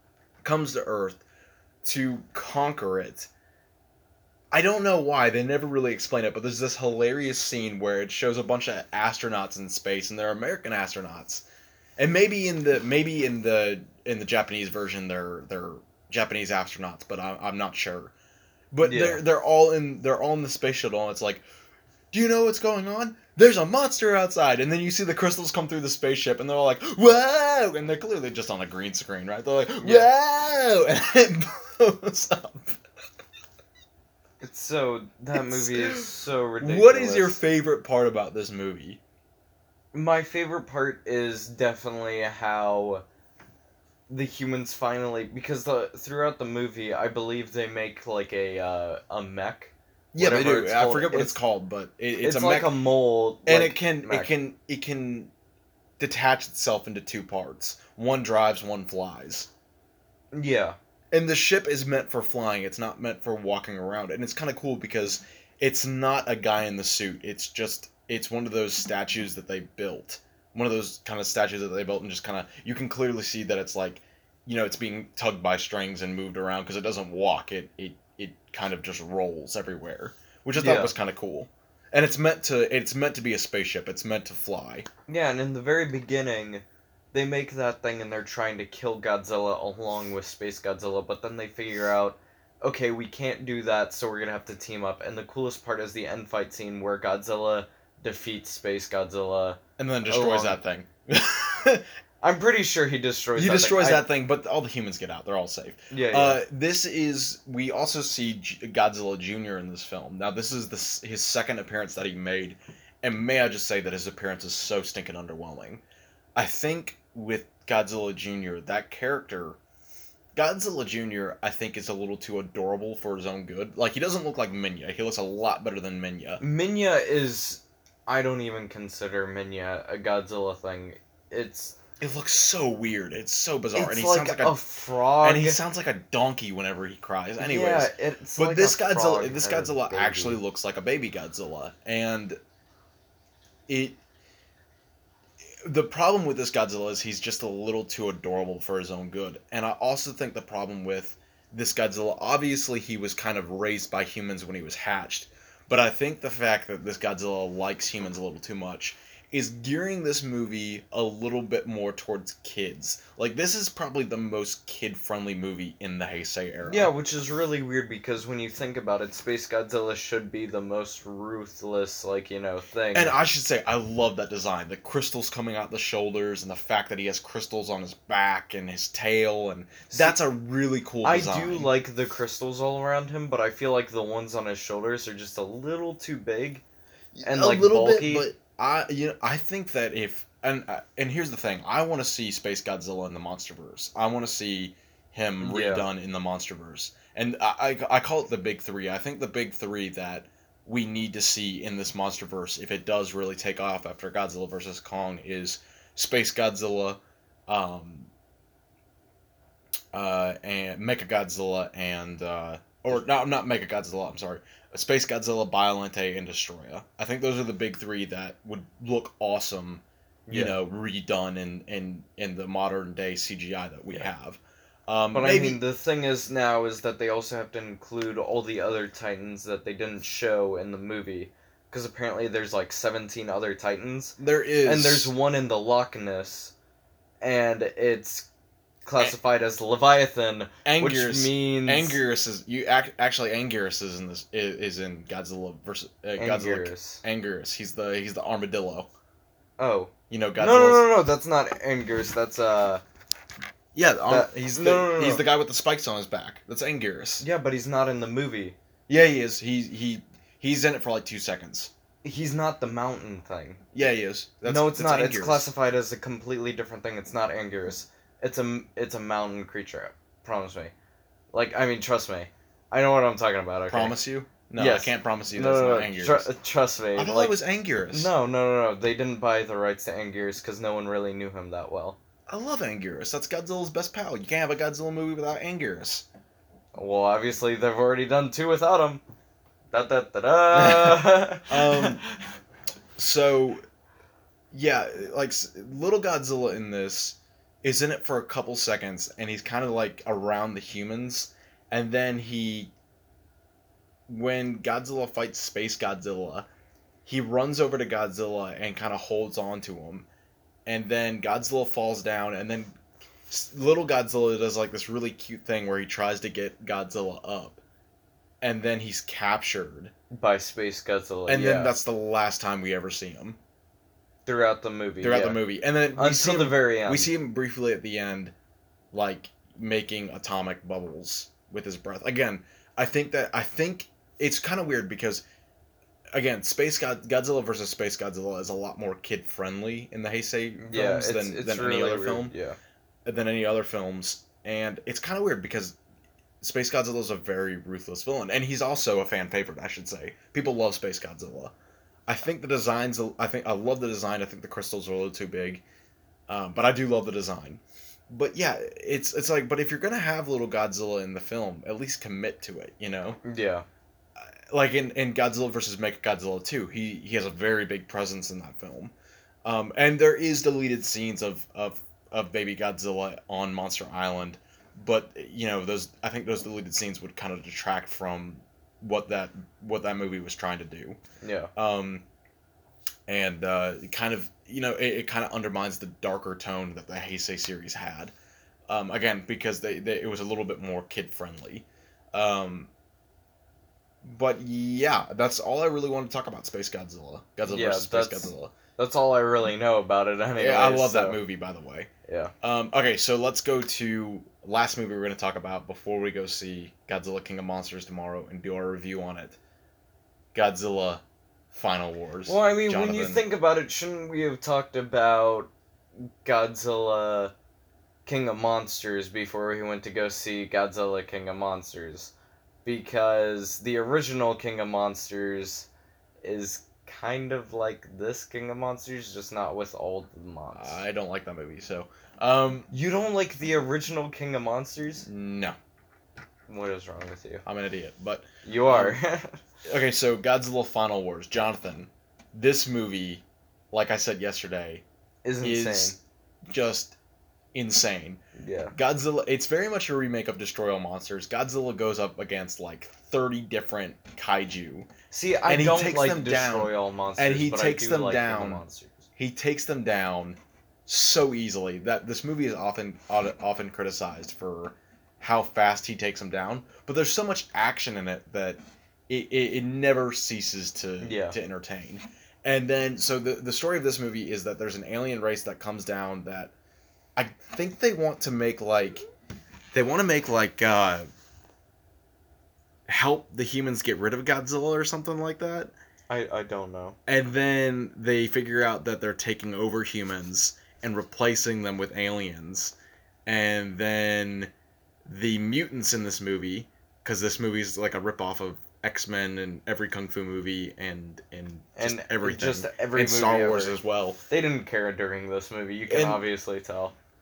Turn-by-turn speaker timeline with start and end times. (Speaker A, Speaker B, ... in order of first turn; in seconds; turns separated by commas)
Speaker A: 0.4-1.2, Speaker A: 1.8-3.3, Speaker A: 4.5-11.4, Speaker A: 12.0-18.1, Speaker A: 18.7-21.4, Speaker B: 18.8-19.2, Speaker A: 22.1-32.8, Speaker B: 29.8-30.1, Speaker B: 34.4-37.4, Speaker A: 35.3-36.1, Speaker A: 36.6-39.0, Speaker B: 39.9-43.0, Speaker B: 44.1-51.4, Speaker A: 50.1-52.7, Speaker B: 52.2-54.3, Speaker A: 53.5-55.3, Speaker A: 56.0-59.5, Speaker B: 60.3-60.8, Speaker A: 61.1-84.9, Speaker B: 80.5-80.9, Speaker B: 85.1-100.6, Speaker A: 99.8-101.8, Speaker B: 102.2-104.0, Speaker A: 103.3-115.8, Speaker B: 105.9-106.4, Speaker A: 116.3-119.6, Speaker A: 120.3-126.4, Speaker B: 126.4-131.8, Speaker A: 132.0-134.6, Speaker B: 133.7-135.6, Speaker A: 135.2-142.4, Speaker B: 137.4-140.4, Speaker A: 143.7-144.0, Speaker A: 145.6-166.9, Speaker B: 166.7-173.1, Speaker A: 172.9-181.7, Speaker B: 179.9-180.2, Speaker B: 181.0-186.6, Speaker A: 187.1-208.1, Speaker B: 187.2-188.2, Speaker B: 195.4-195.8, Speaker A: 209.9-225.6, Speaker B: 220.3-220.6, Speaker B: 225.1-236.5, Speaker A: 234.2-235.1, Speaker B: 237.2-238.3, Speaker B: 238.8-242.0, Speaker A: 240.6-248.9, Speaker B: 246.2-247.0, Speaker B: 249.6-252.8, Speaker A: 250.1-250.9, Speaker A: 253.7-257.2, Speaker B: 254.1-255.2, Speaker B: 257.2-258.6, Speaker A: 258.9-261.7, Speaker B: 262.0-263.6, Speaker A: 263.7-265.5, Speaker B: 264.4-270.7, Speaker B: 271.3-274.0, Speaker A: 273.7-276.3, Speaker B: 274.6-277.4, Speaker A: 276.9-278.1, Speaker B: 277.9-282.0, Speaker A: 282.3-286.1, Speaker B: 286.7-289.0, Speaker B: 289.7-292.0, Speaker A: 290.5-292.0, Speaker A: 293.0-293.6, Speaker A: 294.5-302.7, Speaker A: 304.1-306.5, Speaker A: 307.1-310.1, Speaker A: 310.6-312.8, Speaker A: 313.3-317.6, Speaker A: 318.4-319.9, Speaker B: 320.1-321.7, Speaker A: 321.3-323.4, Speaker B: 324.2-325.4, Speaker A: 325.0-328.3, Speaker B: 325.9-327.1, Speaker A: 328.9-335.2, Speaker A: 336.1-342.3, Speaker B: 340.6-342.6, Speaker A: 343.0-345.8, Speaker A: 346.4-351.5, Speaker A: 352.1-355.6, Speaker A: 356.3-363.2, Speaker B: 363.2-363.6, Speaker A: 364.2-368.9, Speaker A: 369.4-381.0, Speaker B: 381.2-381.5, Speaker A: 381.6-382.0, Speaker A: 383.1-388.1, Speaker A: 388.7-392.7, Speaker A: 394.0-398.5, Speaker B: 397.5-401.2, Speaker A: 400.4-401.9, Speaker B: 402.1-402.3, Speaker A: 402.4-409.4, Speaker A: 410.3-413.2, Speaker B: 412.3-415.5, Speaker B: 416.2-417.3, Speaker B: 418.1-422.1, Speaker B: 422.6-425.7, Speaker B: 426.2-430.8, Speaker A: 430.5-432.7, Speaker B: 432.7-435.1, Speaker A: 435.0-435.6, Speaker B: 436.5-437.4, Speaker A: 437.4-439.0, Speaker B: 438.4-439.4, Speaker A: 439.6-444.8, Speaker B: 445.2-445.9, Speaker A: 445.4-445.9, Speaker A: 446.5-446.9, Speaker A: 447.5-448.2, Speaker B: 448.4-448.7, Speaker A: 448.7-454.9, Speaker B: 455.1-459.1, Speaker A: 455.4-458.6, Speaker A: 459.2-476.5, Speaker B: 471.0-471.4, Speaker A: 477.1-479.0, Speaker A: 479.7-481.1, Speaker A: 482.9-485.7, Speaker B: 486.1-487.0, Speaker A: 487.1-492.7, Speaker A: 493.2-494.5, Speaker A: 495.0-504.2, Speaker B: 501.8-503.8, Speaker B: 504.3-506.9, Speaker A: 505.9-506.2